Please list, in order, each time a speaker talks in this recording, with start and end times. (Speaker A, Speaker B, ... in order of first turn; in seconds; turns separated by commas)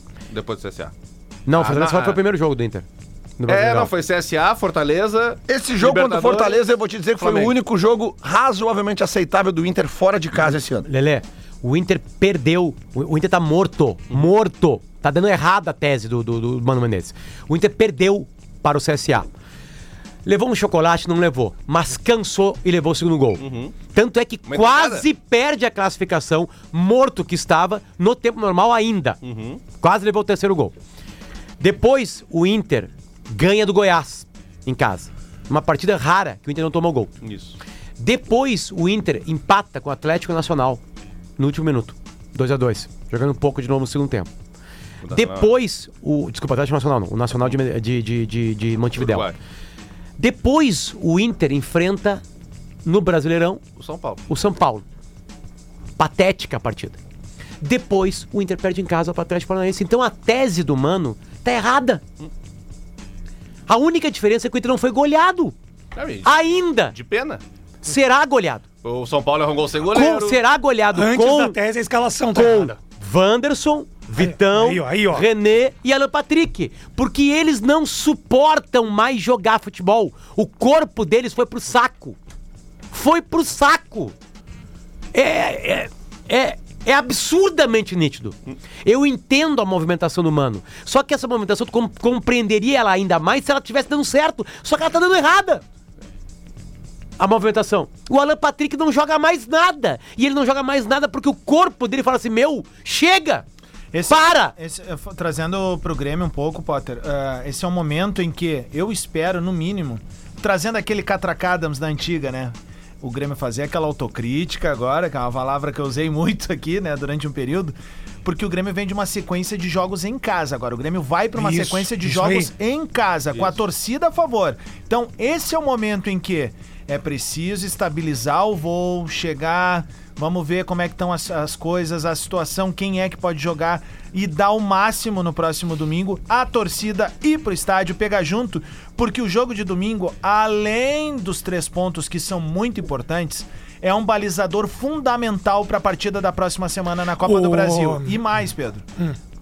Speaker A: 0.3-0.9, Speaker B: 1.5-2.9, Speaker A: 1.5-2.2, Speaker B: 3.4-3.9, Speaker A: 3.5-6.6, Speaker C: 5.5-10.9, Speaker A: 7.2-7.5, Speaker B: 10.8-19.3, Speaker B: 20.2-29.2, Speaker A: 23.4-23.8, Speaker A: 24.5-25.1, Speaker A: 29.2-29.6, Speaker B: 29.8-30.8, Speaker B: 31.6-37.1, Speaker A: 37.2-37.6, Speaker B: 38.0-40.8, Speaker B: 41.4-44.3, Speaker A: 45.0-45.5, Speaker B: 45.1-49.3, Speaker A: 49.0-49.4, Speaker B: 50.2-52.2, Speaker B: 52.8-53.6, Speaker A: 53.8-54.2, Speaker B: 54.3-54.9, Speaker B: 56.0-57.0, Speaker B: 57.6-62.0, Speaker B: 63.7-65.5, Speaker A: 66.0-67.4, Speaker B: 66.2-67.0, Speaker B: 67.8-68.7, Speaker A: 68.8-70.4, Speaker B: 69.9-71.6, Speaker D: 71.0-72.7, Speaker B: 72.3-82.2, Speaker D: 74.2-75.3, Speaker B: 82.9-84.2, Speaker B: 85.1-95.6, Speaker B: 97.2-103.5, Speaker E: 103.9-148.8, Speaker B: 104.1-104.5, Speaker D: 121.4-122.5, Speaker D: 147.2-148.2